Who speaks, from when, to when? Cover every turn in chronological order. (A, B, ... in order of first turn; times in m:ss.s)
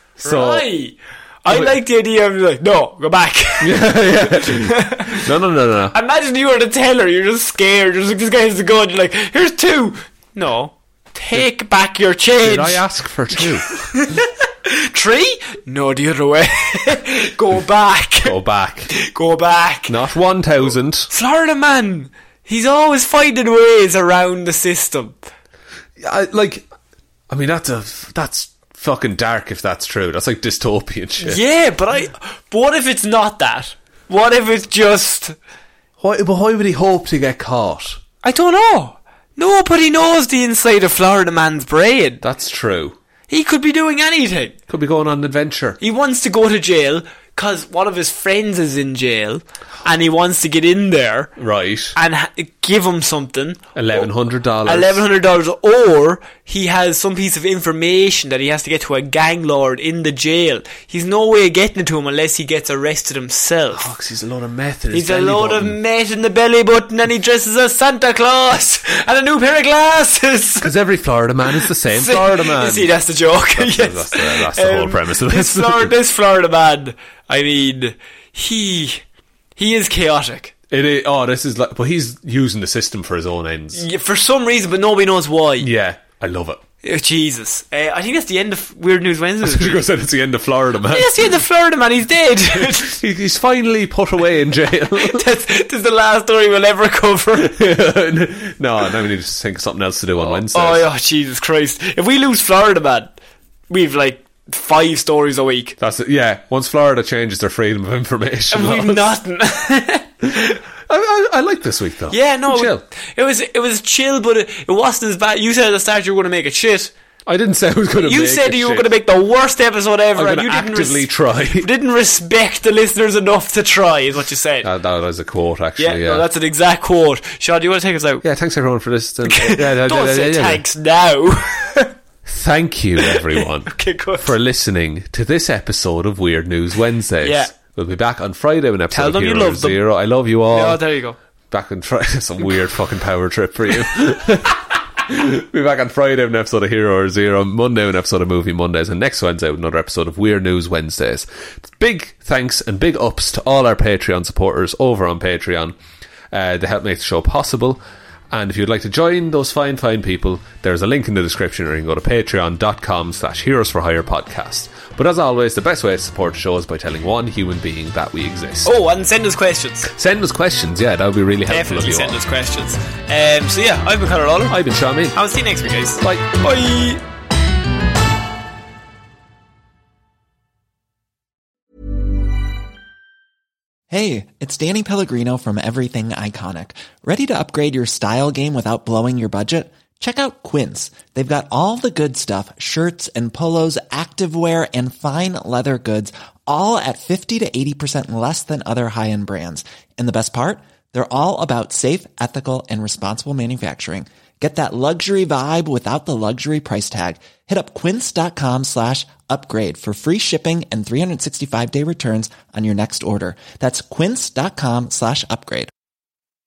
0:00.2-0:00.7 A
0:00.2-0:05.3 B
0:01.5-0:01.8 A
0:03.6-0:05.9 A
0:05.9-0:12.8 B
0:12.4-0:13.7 A
0:13.3-0:18.4 B
0:18.2-0:18.9 A
0:18.9-0:20.0 B
0:19.9-0:21.1 A
0:21.1-0:25.2 B
0:26.0-0:26.7 A
0:27.3-0:31.4 A
0:31.2-0:35.3 B
0:36.0-0:38.0 A
0:38.2-0:42.2 B
0:42.2-0:43.0 A
0:43.3-0:44.6 B
0:44.7-0:45.8 A
0:45.8-0:51.3 B
0:51.4-0:51.9 A
0:51.9-0:54.1 B
0:53.8-0:55.0 A
0:54.6-1:03.9 B
1:03.7-1:05.8 A
1:04.9-1:10.7 B
1:10.6-1:12.9 A
1:11.6-1:19.0 B
1:13.5-1:15.9 A
1:19.6-1:20.5 B
1:20.7-1:23.8 A
1:23.7-1:25.7 B
1:25.6-1:26.6 A
1:26.8-1:29.8 B
1:29.4-1:31.2 A
1:30.8-1:33.0 B
1:32.6-1:35.2 A
1:35.0-1:37.7 B
1:37.4-1:40.8 A
1:40.2-1:43.1 B
1:43.7-1:45.8 B
1:45.8-1:49.0 A
1:48.5-1:50.6 B
1:50.9-1:52.8 A
1:52.1-1:56.9 B
1:57.3-1:58.9 A
1:58.0-2:04.7 B
2:00.1-2:01.7 A
2:04.6-2:06.3 A
2:05.8-2:08.2 B
2:08.2-2:10.6 A
2:09.2-2:11.9 B
2:12.2-2:20.8 A
2:13.0-2:14.3 B
2:17.2-2:17.5 B
2:18.9-2:19.8 B
2:20.5-2:21.2 B
2:21.5-2:35.7 A
2:36.3-2:48.7 A
2:48.6-2:49.9 B
2:49.9-2:52.2 A
2:51.5-2:54.6 B
2:54.5-2:55.2 A
2:55.1-2:57.0 B
2:56.0-2:56.4 A
3:03.9-3:35.7 C